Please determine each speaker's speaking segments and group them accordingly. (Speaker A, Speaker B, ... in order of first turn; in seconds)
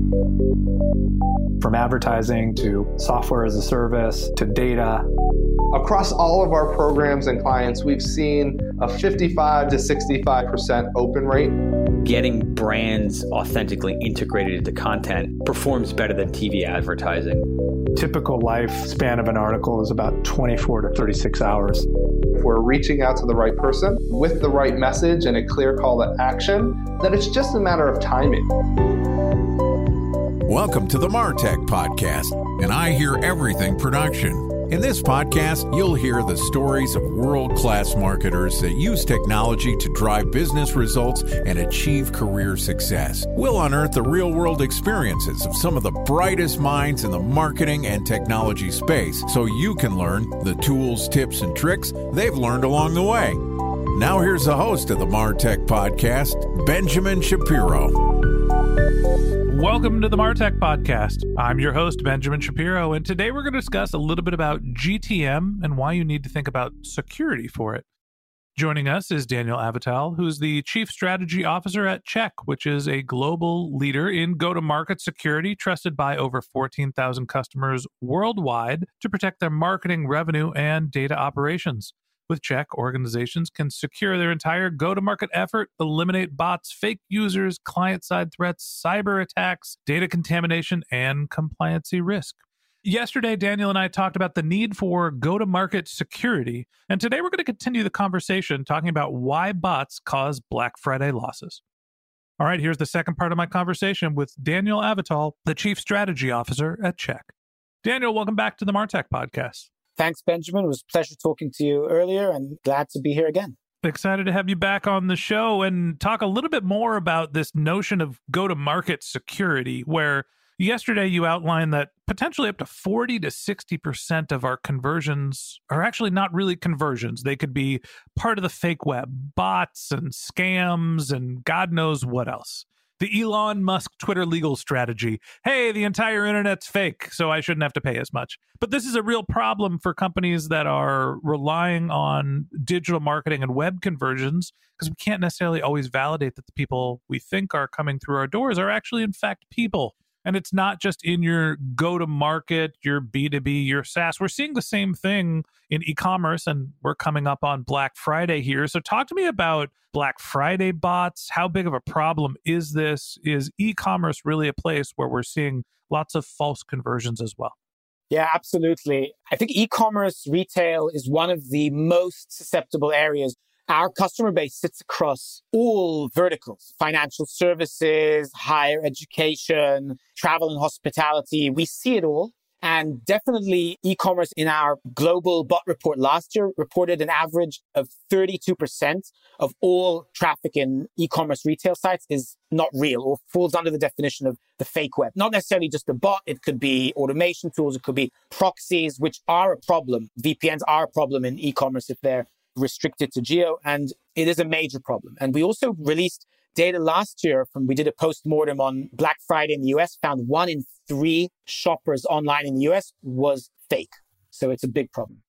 Speaker A: 1.6-5.0, 17.9-21.9
Speaker B: 5.7-11.6, 22.4-28.5
Speaker C: 12.0-17.5
Speaker D: 30.4-53.4, 53.9-57.9
Speaker E: 59.5-67.8, 68.5-101.6, 102.4-107.3, 107.8-109.7, 113.8-167.5
Speaker F: 110.0-113.5, 168.1-215.1